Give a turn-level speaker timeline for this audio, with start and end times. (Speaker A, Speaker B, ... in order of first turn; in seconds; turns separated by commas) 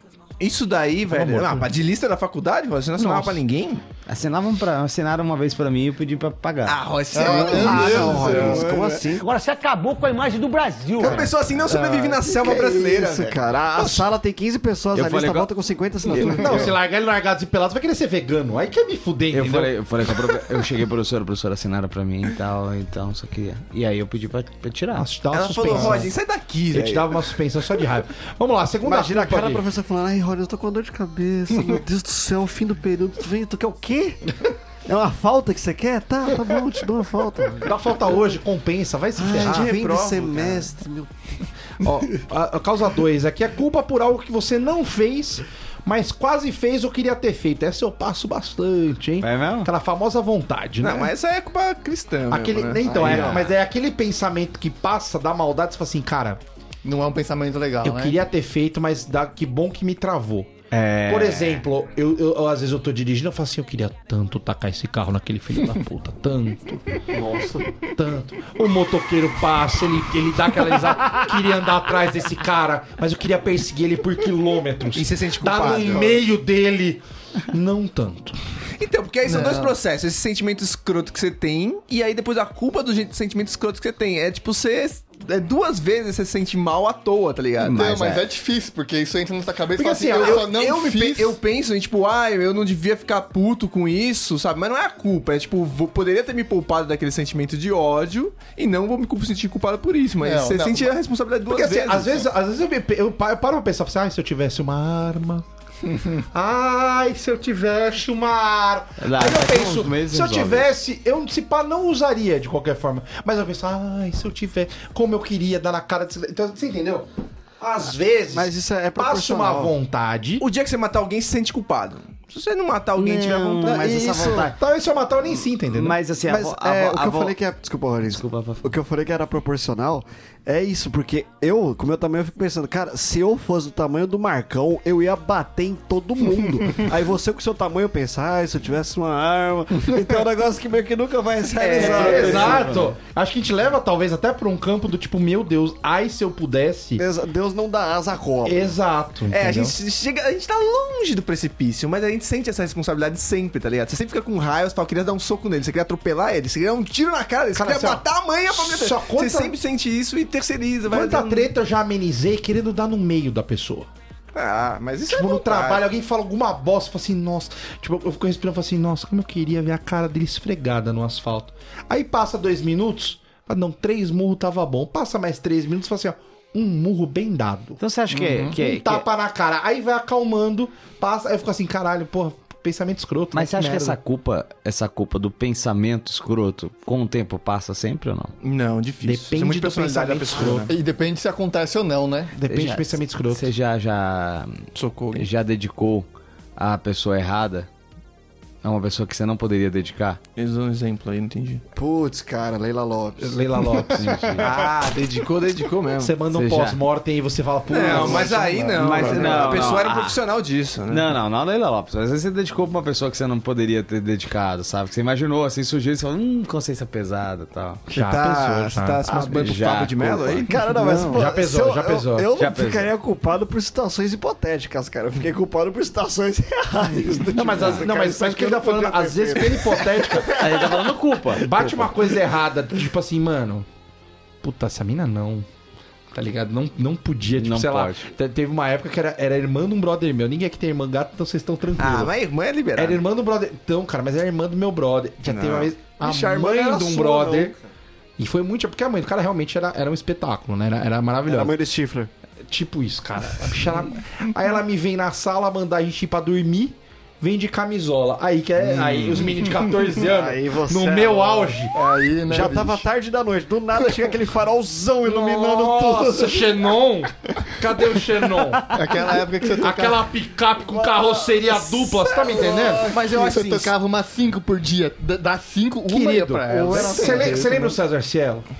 Speaker A: 0.4-3.8, Speaker B: 1.1-1.5, Speaker B: 3.0-3.3, Speaker C: 4.1-6.8, Speaker A: 6.6-9.1, Speaker D: 7.1-8.6, Speaker E: 7.2-9.3, Speaker B: 8.0-8.4, Speaker F: 9.1-11.3, Speaker A: 11.0-13.4, Speaker E: 11.0-11.3, Speaker D: 11.7-12.2, Speaker E: 12.2-16.7, Speaker C: 14.9-15.5, Speaker C: 16.1-16.4, Speaker B: 16.3-19.7, Speaker C: 19.3-25.1, Speaker B: 24.9-26.1, Speaker A: 25.3-27.3, Speaker B: 26.7-29.6, Speaker E: 28.8-34.3, Speaker E: 34.9-37.7, Speaker B: 37.6-39.8, Speaker E: 39.1-41.1, Speaker A: 39.4-40.7, Speaker B: 41.8-51.1, Speaker C: 49.2-49.7, Speaker A: 50.8-53.4, Speaker B: 52.3-56.4, Speaker E: 52.8-53.5, Speaker D: 56.8-58.2, Speaker B: 57.8-60.5, Speaker C: 60.7-61.6, Speaker B: 61.1-67.1, Speaker E: 67.2-67.5, Speaker B: 67.8-78.3, Speaker A: 74.9-76.2, Speaker A: 78.8-87.9, Speaker D: 79.2-79.7, Speaker D: 87.6-91.4, Speaker C: 87.7-88.2, Speaker B: 89.8-90.4, Speaker A: 89.9-102.2, Speaker D: 100.2-100.9, Speaker B: 101.5-105.4, Speaker B: 106.3-117.1, Speaker C: 109.0-110.7, Speaker B: 117.6-120.4, Speaker E: 118.3-119.7, Speaker A: 120.4-124.3, Speaker C: 123.0-124.6, Speaker E: 123.7-124.5, Speaker B: 123.8-126.0, Speaker C: 125.7-127.3, Speaker E: 126.2-142.8, Speaker C: 128.1-128.6, Speaker C: 141.6-142.9, Speaker B: 141.7-147.0, Speaker E: 147.0-148.7, Speaker B: 148.4-149.7, Speaker A: 149.3-161.5, Speaker B: 157.5-159.6, Speaker B: 160.9-163.9, Speaker A: 164.3-165.8, Speaker B: 165.1-177.8, Speaker C: 177.8-179.1, Speaker D: 178.1-178.6, Speaker B: 178.6-184.0, Speaker C: 183.3-188.3, Speaker A: 188.4-190.7, Speaker B: 189.0-190.7, Speaker D: 190.7-192.3, Speaker B: 192.3-193.5, Speaker C: 192.5-197.7, Speaker A: 194.7-195.3, Speaker C: 198.6-200.2, Speaker A: 200.3-201.6, Speaker E: 201.7-203.4, Speaker B: 203.2-205.0, Speaker C: 203.9-204.5, Speaker A: 204.4-206.1, Speaker B: 206.0-209.5, Speaker C: 206.3-206.8, Speaker A: 207.7-211.1, Speaker D: 208.4-208.8, Speaker C: 208.8-210.2, Speaker E: 209.0-209.6, Speaker C: 210.9-217.8, Speaker A: 217.9-221.1, Speaker B: 217.9-219.5, Speaker C: 219.2-220.5, Speaker E: 220.4-230.9, Speaker B: 221.1-222.3, Speaker C: 222.4-222.9, Speaker B: 227.3-230.4, Speaker C: 227.5-227.8, Speaker C: 230.4-231.9, Speaker B: 231.4-233.7, Speaker B: 234.4-235.4, Speaker B: 236.1-242.1, Speaker C: 237.3-238.1, Speaker A: 241.8-243.0, Speaker B: 242.8-247.5, Speaker A: 245.2-247.3, Speaker E: 246.9-247.5, Speaker B: 248.2-251.5, Speaker E: 251.2-252.1, Speaker B: 252.5-261.7, Speaker E: 258.6-259.3, Speaker E: 259.9-261.7, Speaker D: 261.7-262.8, Speaker E: 262.3-266.7, Speaker B: 265.0-268.8, Speaker D: 268.7-270.0, Speaker B: 269.6-273.4, Speaker E: 270.6-272.9, Speaker D: 272.5-277.7, Speaker A: 272.9-273.7, Speaker B: 275.9-278.5, Speaker E: 276.5-277.6